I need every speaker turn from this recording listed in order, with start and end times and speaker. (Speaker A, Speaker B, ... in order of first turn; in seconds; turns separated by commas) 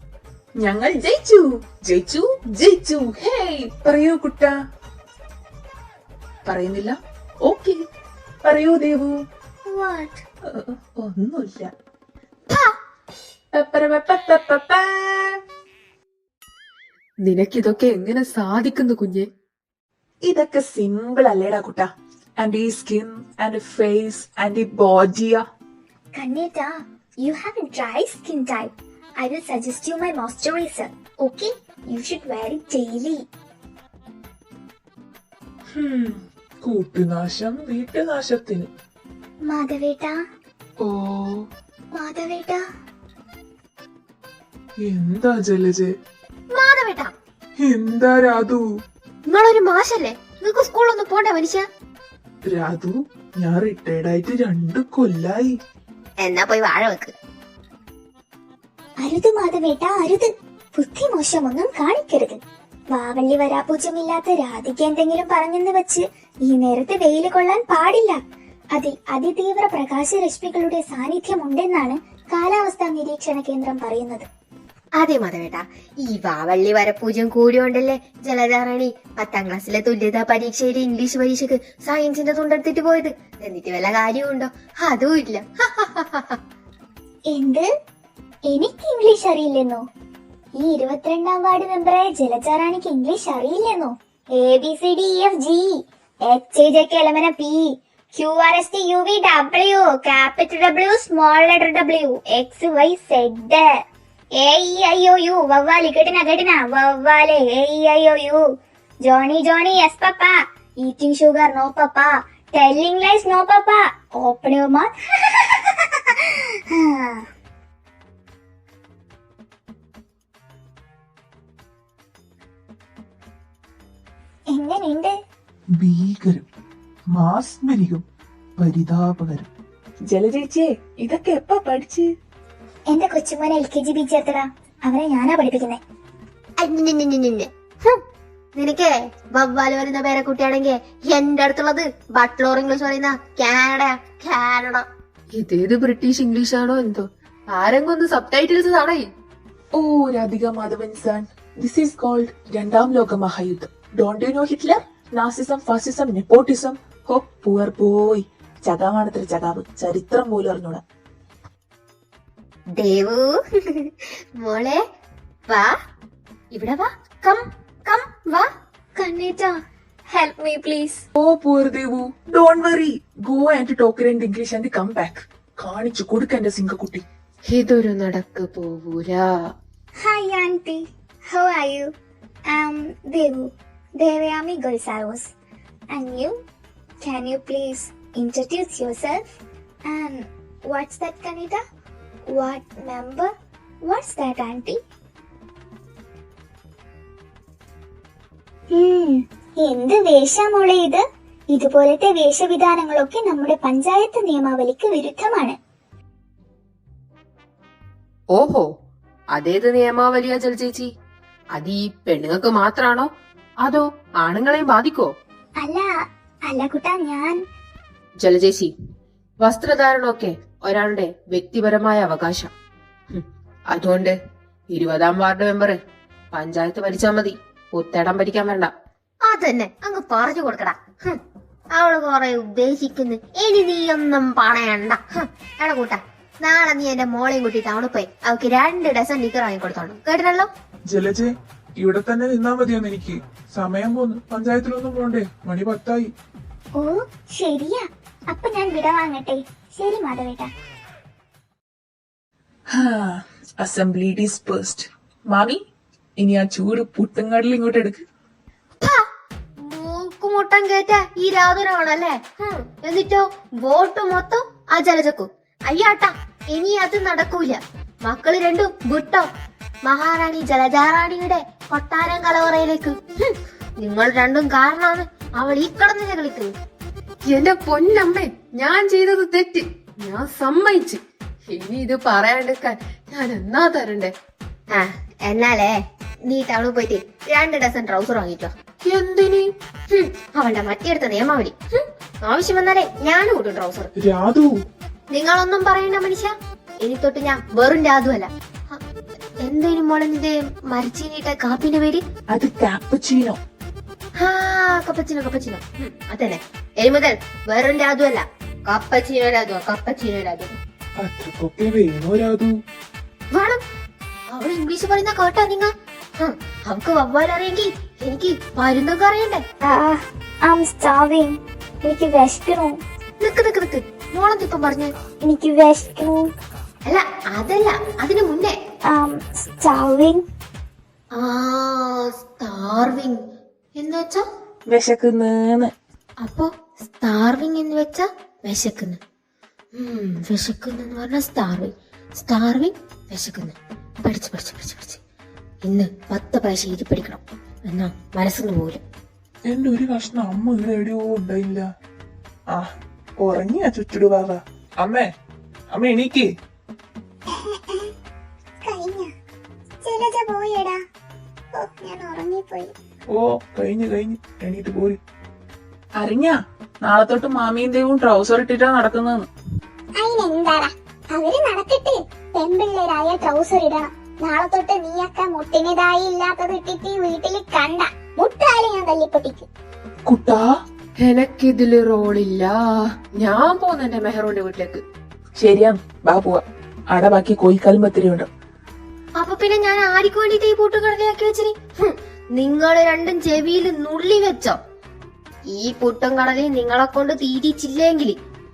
Speaker A: 0.6-4.5, Speaker A: 6.4-7.8, Speaker A: 8.4-9.2, Speaker B: 9.7-10.2, Speaker A: 10.4-11.7, Speaker A: 13.5-15.4, Speaker C: 17.2-19.3, Speaker A: 20.2-25.4, Speaker B: 26.1-33.2, Speaker A: 35.7-38.7, Speaker B: 39.5-40.1, Speaker A: 40.8-41.4, Speaker B: 41.9-42.6, Speaker A: 44.8-45.9, Speaker D: 46.5-47.1, Speaker E: 47.7-48.6, Speaker D: 49.3-51.6, Speaker A: 52.4-55.5, Speaker D: 56.2-57.1, Speaker B: 59.0-62.4, Speaker B: 62.9-68.2, Speaker B: 68.7-74.3, Speaker D: 75.0-86.4, Speaker B: 87.3-87.7, Speaker B: 88.5-89.8, Speaker B: 90.6-103.7, Speaker B: 104.4-108.4, Speaker B: 109.0-117.2, Speaker B: 124.5-125.1, Speaker A: 125.8-126.5, Speaker A: 127.1-128.0, Speaker A: 128.6-129.5, Speaker A: 130.1-132.1, Speaker B: 132.9-135.8, Speaker D: 136.6-138.0, Speaker D: 138.6-144.8, Speaker C: 145.3-149.1, Speaker A: 149.7-160.8, Speaker D: 162.7-164.8, Speaker D: 166.5-168.5, Speaker B: 168.9-169.5, Speaker B: 170.1-171.0, Speaker A: 171.1-177.0, Speaker C: 177.5-179.3, Speaker B: 180.0-181.9, Speaker B: 182.5-185.3, Speaker B: 185.9-186.3, Speaker B: 187.0-189.2, Speaker B: 189.9-191.6, Speaker B: 192.3-193.3, Speaker B: 193.8-194.8, Speaker B: 198.7-205.6, Speaker C: 208.3-208.7, Speaker C: 209.3-210.9, Speaker C: 211.5-213.1, Speaker C: 213.6-215.1, Speaker B: 215.6-215.9, Speaker B: 216.4-217.4, Speaker C: 218.2-218.7, Speaker C: 219.4-222.5, Speaker C: 223.1-224.2, Speaker C: 224.7-225.8, Speaker C: 226.3-228.7, Speaker D: 229.2-231.2, Speaker D: 231.7-240.5, Speaker E: 240.9-246.1, Speaker B: 246.8-250.5, Speaker A: 252.7-255.6, Speaker A: 256.2-258.0, Speaker D: 258.8-259.1, Speaker D: 259.6-269.3, Speaker D: 269.8-276.5, Speaker C: 277.2-284.1, Speaker D: 284.7-288.5, Speaker C: 288.8-289.5, Speaker D: 289.9-293.9, Speaker E: 294.0-294.5, Speaker D: 295.1-298.8, Speaker D: 299.4-302.0, Speaker A: 302.3-303.4, Speaker D: 304.2-310.6, Speaker E: 311.0-312.5, Speaker D: 313.3-313.6, Speaker D: 314.3-319.4, Speaker B: 319.6-322.7, Speaker D: 323.2-324.9, Speaker B: 325.2-326.2, Speaker D: 326.9-328.6, Speaker B: 328.9-330.2, Speaker D: 331.1-333.2, Speaker D: 333.8-334.2, Speaker A: 334.7-335.7, Speaker D: 336.2-339.0, Speaker D: 339.7-345.0, Speaker D: 345.6-348.8, Speaker A: 349.5-351.6, Speaker A: 353.2-355.1, Speaker A: 355.7-356.2, Speaker B: 357.3-357.9, Speaker B: 358.6-359.1, Speaker B: 359.8-360.8, Speaker B: 361.6-362.7, Speaker A: 363.1-365.0, Speaker A: 366.0-369.3, Speaker B: 370.0-379.5, Speaker A: 380.1-380.5, Speaker C: 381.0-384.8, Speaker A: 385.4-388.3, Speaker D: 389.2-394.6, Speaker D: 395.5-398.2